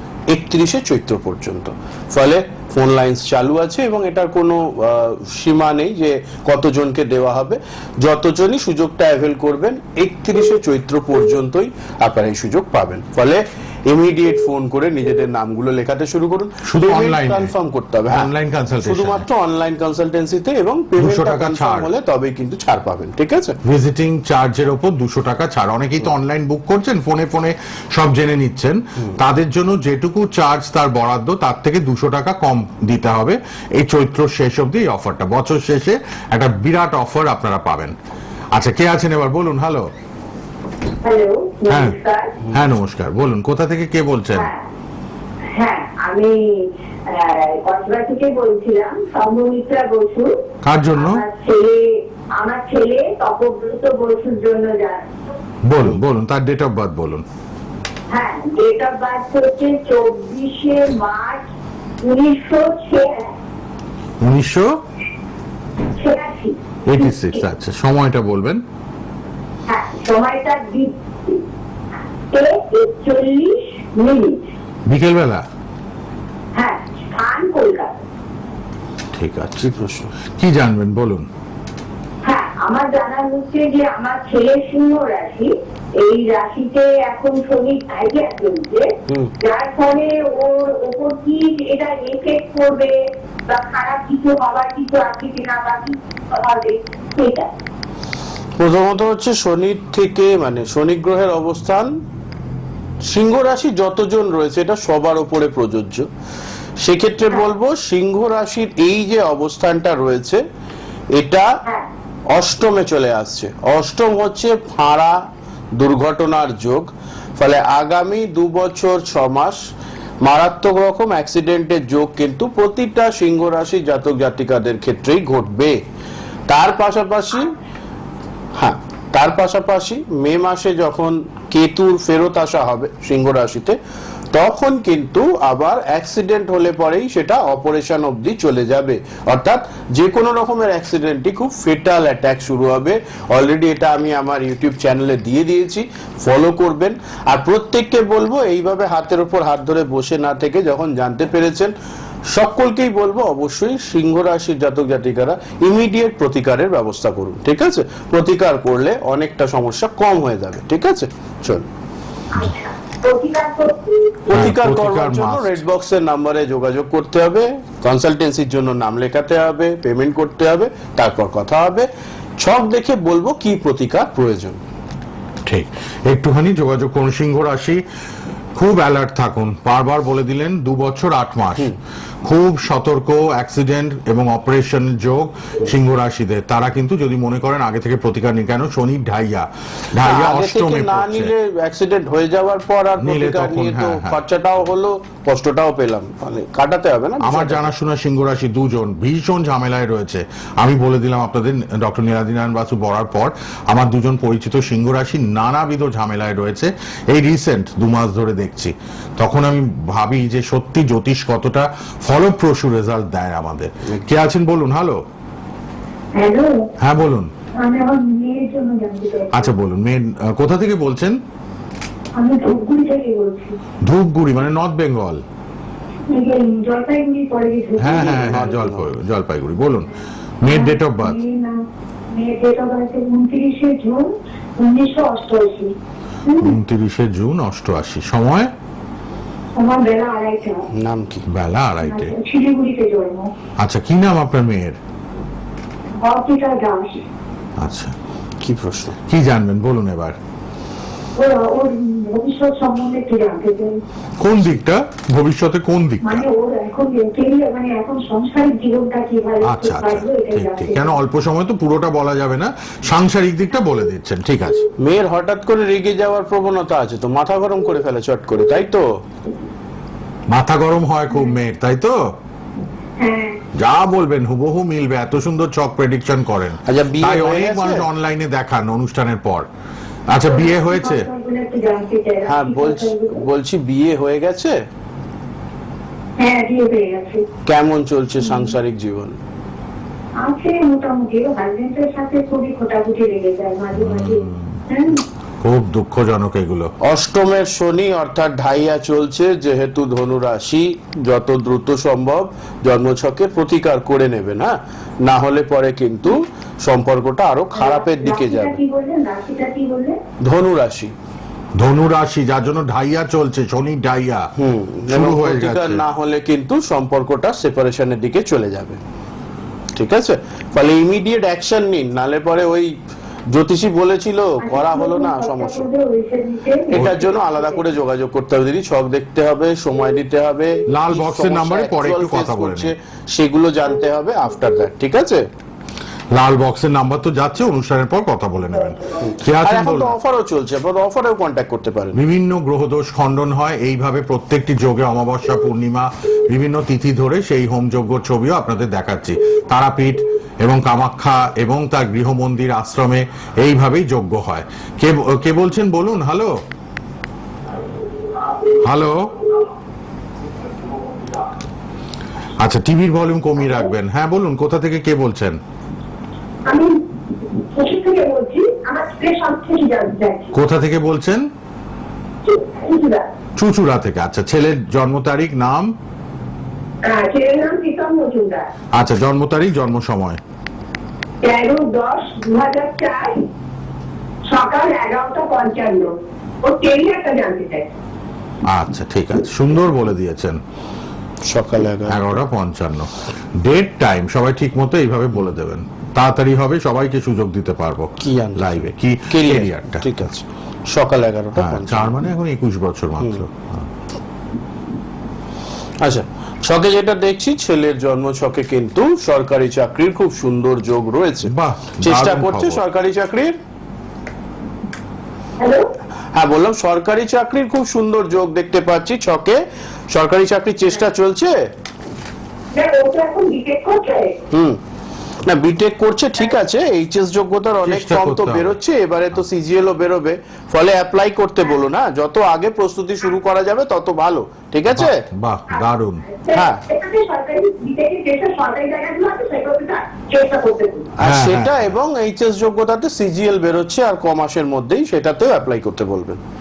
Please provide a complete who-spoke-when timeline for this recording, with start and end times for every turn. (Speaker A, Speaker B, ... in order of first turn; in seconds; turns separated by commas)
Speaker A: 0.3-18.3, Speaker B: 16.6-17.5, Speaker B: 18.1-19.2, Speaker A: 18.8-23.6, Speaker B: 21.0-21.9, Speaker B: 23.6-38.0, Speaker B: 38.5-39.9, Speaker C: 41.0-42.4, Speaker B: 41.7-42.0, Speaker B: 42.5-44.5, Speaker C: 44.4-44.6, Speaker C: 45.5-50.3, Speaker B: 50.6-51.2, Speaker C: 51.0-55.1, Speaker B: 55.7-57.2, Speaker C: 58.1-61.5, Speaker C: 62.0-63.3, Speaker B: 64.2-64.7, Speaker C: 66.0-67.4, Speaker B: 66.9-68.6, Speaker C: 69.7-71.4, Speaker C: 72.3-74.5, Speaker B: 74.9-75.5, Speaker C: 76.5-78.0, Speaker B: 79.1-79.7, Speaker A: 79.6-80.1, Speaker B: 80.2-81.3, Speaker C: 82.2-97.5, Speaker A: 98.6-102.0, Speaker A: 103.0-106.1, Speaker A: 106.8-110.4, Speaker A: 111.1-111.5, Speaker A: 112.3-115.2, Speaker A: 115.8-119.6, Speaker A: 120.2-125.8, Speaker A: 126.5-127.5, Speaker A: 128.6-133.8, Speaker A: 134.3-151.7, Speaker A: 152.3-161.7, Speaker C: 162.3-163.9, Speaker A: 164.3-174.6, Speaker B: 164.3-165.6, Speaker B: 175.5-177.8, Speaker B: 178.6-191.3, Speaker A: 190.0-197.7, Speaker B: 193.0-194.2, Speaker B: 197.2-215.0, Speaker C: 216.1-216.7, Speaker B: 216.8-217.3, Speaker C: 217.5-219.5, Speaker B: 219.3-221.2, Speaker C: 222.2-223.6, Speaker B: 223.8-225.2, Speaker C: 226.1-228.5, Speaker B: 227.8-229.9, Speaker A: 227.8-228.9, Speaker B: 230.4-231.2, Speaker C: 230.4-235.7, Speaker C: 236.3-236.6, Speaker B: 236.4-238.5, Speaker C: 239.6-240.7, Speaker A: 240.7-241.3, Speaker B: 241.3-242.1, Speaker C: 241.8-243.3, Speaker B: 243.6-244.8, Speaker C: 246.0-247.0, Speaker B: 247.6-247.9, Speaker A: 248.4-249.0, Speaker B: 249.1-250.2, Speaker C: 251.2-253.8, Speaker B: 254.2-256.3, Speaker C: 256.0-260.9, Speaker B: 259.4-264.7, Speaker A: 264.8-268.9, Speaker B: 270.3-272.0, Speaker C: 273.0-273.4, Speaker B: 273.6-279.5, Speaker A: 276.7-277.9, Speaker B: 280.1-281.1, Speaker C: 280.2-283.2, Speaker A: 282.3-284.6, Speaker C: 286.2-287.3, Speaker A: 287.5-289.2, Speaker C: 290.2-295.0, Speaker B: 293.7-294.6, Speaker B: 295.4-296.7, Speaker A: 296.8-308.6, Speaker C: 307.6-310.0, Speaker A: 310.2-310.9, Speaker B: 311.6-314.3, Speaker A: 314.4-318.8, Speaker B: 314.9-315.8, Speaker A: 319.8-322.8, Speaker A: 323.3-325.7, Speaker C: 324.4-327.6, Speaker A: 326.7-335.3, Speaker B: 326.7-327.0, Speaker B: 330.7-332.7, Speaker B: 336.1-339.9, Speaker A: 339.0-342.0, Speaker B: 341.9-356.4, Speaker B: 358.5-359.3, Speaker B: 362.4-365.4, Speaker C: 366.5-366.8, Speaker C: 367.5-370.3, Speaker B: 370.3-371.3, Speaker C: 372.2-373.1, Speaker B: 373.4-375.7, Speaker C: 376.8-378.5, Speaker B: 378.7-380.2, Speaker C: 381.2-383.3, Speaker C: 384.2-387.7, Speaker B: 388.4-390.4, Speaker A: 391.3-392.2, Speaker B: 391.9-400.1, Speaker A: 398.0-401.9, Speaker B: 401.4-403.7, Speaker A: 405.8-413.4, Speaker B: 411.3-412.6, Speaker C: 415.4-415.7, Speaker A: 416.1-421.5, Speaker C: 422.5-424.2, Speaker A: 424.3-424.6, Speaker A: 425.3-435.0, Speaker B: 427.6-428.6, Speaker B: 434.7-436.1, Speaker C: 436.2-440.9, Speaker A: 436.3-436.6, Speaker A: 441.0-446.2, Speaker B: 441.0-441.7